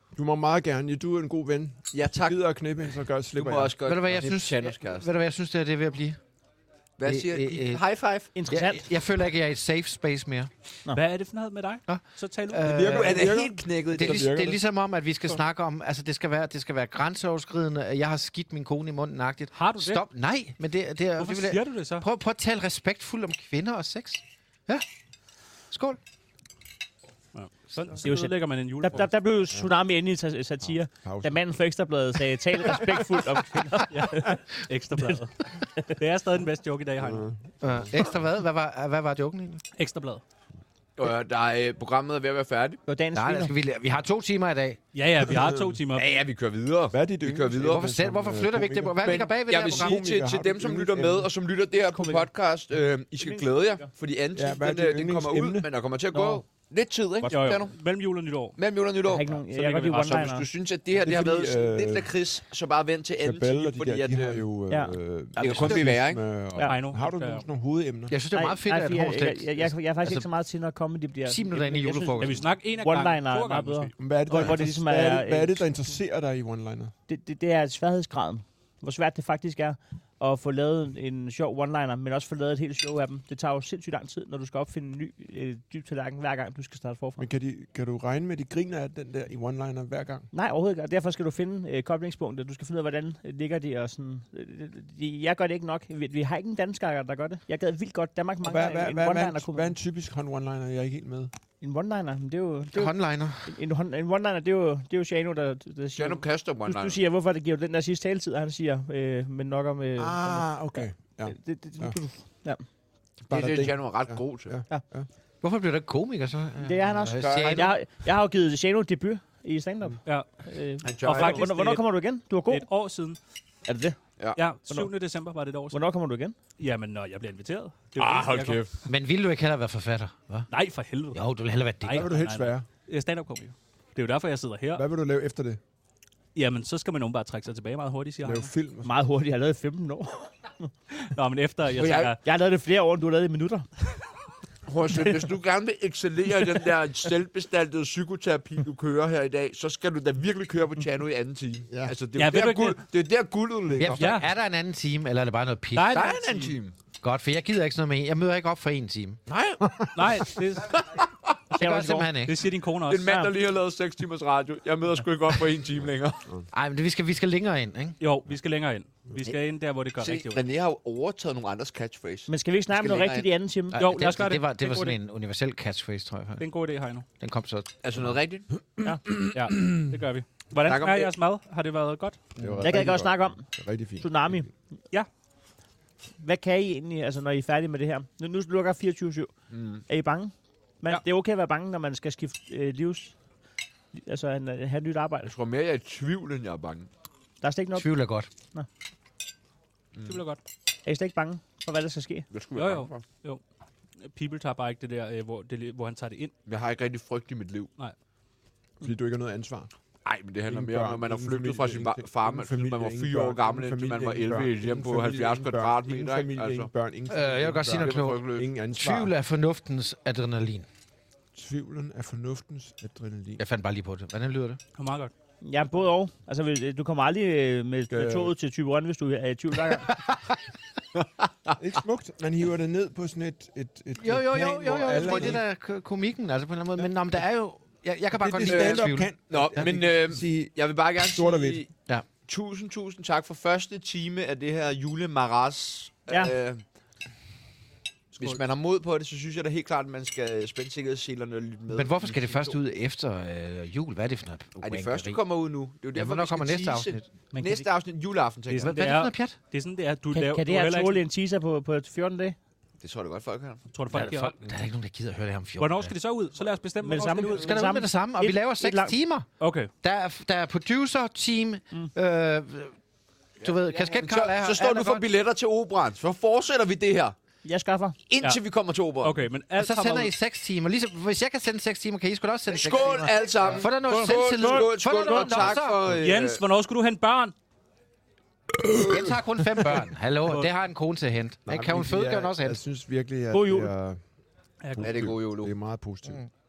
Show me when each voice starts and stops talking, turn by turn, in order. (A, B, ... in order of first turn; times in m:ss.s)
0:00.1-0:03.8 A
0:01.9-0:02.4 B
0:03.3-0:05.1 B
0:03.8-0:06.2 C
0:07.0-0:08.3 B
0:07.0-0:07.8 C
0:08.3-0:08.8 D
0:08.5-0:10.5 C
0:10.9-0:12.8 E
0:11.9-0:24.8 C
0:12.6-0:14.6 A
0:12.8-0:14.4 B
0:19.5-0:20.0 E
0:21.2-0:22.0 E
0:25.7-0:26.0 C
0:27.3-0:29.1 E
0:28.0-0:34.4 D
0:30.9-0:31.5 A
0:32.8-0:33.4 A
0:33.9-0:37.3 E
0:37.0-0:37.9 A
0:37.6-0:39.6 C
0:39.8-0:40.2 E
0:41.0-0:42.8 B
0:42.9-0:43.5 D
0:43.1-0:44.8 C
0:44.9-0:46.2 E
0:45.3-0:45.8 A
0:45.9-0:48.0 B
0:46.9-0:51.3 A
0:47.6-0:50.0 C
0:49.0-0:57.8 B
0:51.9-0:52.3 D
0:53.2-0:53.9 D
0:54.3-0:55.7 A
0:56.1-0:56.4 D
0:57.2-0:57.6 D
0:57.3-0:58.6 E
0:58.6-0:59.3 B
0:59.1-1:00.5 D
0:59.3-1:00.4 E
1:00.2-1:04.4 B
1:01.0-1:02.1 A
1:03.2-1:08.1 A
1:04.7-1:05.0 D
1:05.4-1:05.9 C
1:05.4-1:06.3 B
1:06.6-1:07.4 E
1:08.1-1:10.2 C
1:08.3-1:15.6 D
1:11.2-1:12.5 C
1:12.2-1:13.9 E
1:14.0-1:16.9 A
1:17.1-1:27.2 D
1:27.2-1:30.3 A
1:30.3-1:39.7 D
1:38.4-1:41.3 A
1:41.6-1:42.9 D
1:42.7-1:43.6 C
1:43.4-1:52.6 D
1:45.9-1:47.0 B
1:50.0-1:52.0 A
1:53.2-1:54.5 B
1:53.3-1:55.1 A
1:55.4-1:57.7 C
1:56.6-2:02.7 D
1:57.0-1:57.7 B
2:00.8-2:01.5 B
2:01.0-2:01.8 E
2:02.5-2:03.2 E
2:03.7-2:04.0 D
2:04.4-2:05.8 E
2:05.7-2:06.3 D
2:06.6-2:08.6 E
2:08.0-2:08.8 B
2:08.9-2:10.5 C
2:10.5-2:11.2 E
2:11.1-2:12.1 C
2:11.8-2:14.8 E
2:11.8-2:12.6 A
2:14.8-2:15.6 A
2:16.3-2:18.5 E
2:18.2-2:18.9 A
2:18.8-2:20.7 D
2:21.1-2:22.2 E
2:21.7-2:22.1 B
2:22.1-2:23.7 D
2:24.7-2:34.1 B
2:31.7-2:31.9 A
2:32.2-2:32.8 E
2:33.8-2:36.0 C
2:34.0-2:34.3 E
2:35.7-2:36.6 E
2:35.9-2:36.8 B
2:36.9-2:39.2 C
2:39.3-2:39.7 B
2:39.6-2:40.0 A
2:39.9-2:40.8 E
2:40.6-2:41.3 B
2:41.5-2:42.4 C
2:41.5-2:42.1 D
2:42.2-2:43.2 E
2:42.8-2:46.4 B
2:46.5-2:48.0 C
2:48.0-2:50.4 E
2:50.0-2:53.3 B
2:52.3-2:53.8 D
2:53.7-2:56.5 C
2:53.8-2:55.0 E
2:56.4-2:57.0 E
2:57.2-2:58.1 C
2:57.8-2:58.5 B
2:59.3-3:02.2 E
3:00.6-3:01.1 B
3:02.4-3:04.5 A
3:02.6-3:03.5 D
3:04.0-3:04.5 D
3:06.2-3:09.3 D
3:09.5-3:09.8 B
3:09.9-3:13.1 D
3:13.9-3:15.3 D
3:15.2-3:16.9 B
3:17.4-3:17.9 D
3:17.7-3:18.3 C
3:19.9-3:20.2 B
3:20.0-3:20.4 E
3:20.8-3:22.3 D
3:22.3-3:23.0 B
3:22.5-3:23.4 E
3:24.1-3:26.3 E
3:26.5-3:27.7 B
3:28.8-3:29.7 A
3:30.0-3:36.7 B
3:30.5-3:39.1 A
3:37.1-3:40.6 C
3:37.7-3:38.5 B
3:41.3-3:43.4 A
3:43.4-3:44.6 C
3:44.8-3:45.1 E
3:45.4-3:50.0 D
3:47.9-3:48.3 A
3:51.6-3:55.4 A
3:54.0-3:59.7 C
3:55.0-3:55.3 B
3:58.2-4:01.6 A
3:58.4-4:06.6 B
4:08.1-4:12.6 B
4:11.7-4:15.2 C
4:14.6-4:18.8 B
4:15.9-4:17.1 C
4:17.3-4:17.6 D
4:18.5-4:21.0 E
4:18.6-4:19.4 C
4:20.1-4:22.4 D
4:22.8-4:23.7 B
4:23.7-4:24.3 E
4:23.9-4:25.9 C
4:25.6-4:27.6 E
4:26.8-4:29.0 D
4:27.3-4:29.3 C
4:29.4-4:29.7 E
4:29.8-4:32.8 C
4:33.4-4:35.0 C
4:33.4-4:37.2 B
4:37.4-4:38.0 D
4:38.1-4:39.2 B
4:39.0-4:40.1 E
4:39.6-4:46.0 C
4:42.5-4:46.4 B
4:43.9-4:45.5 D
4:46.0-4:47.3 E
4:48.6-4:49.8 A
4:48.8-4:52.6 C
4:51.4-4:54.0 A
4:53.3-4:53.7 D
4:54.6-4:55.1 E
4:54.7-4:56.2 A
4:54.8-4:55.5 B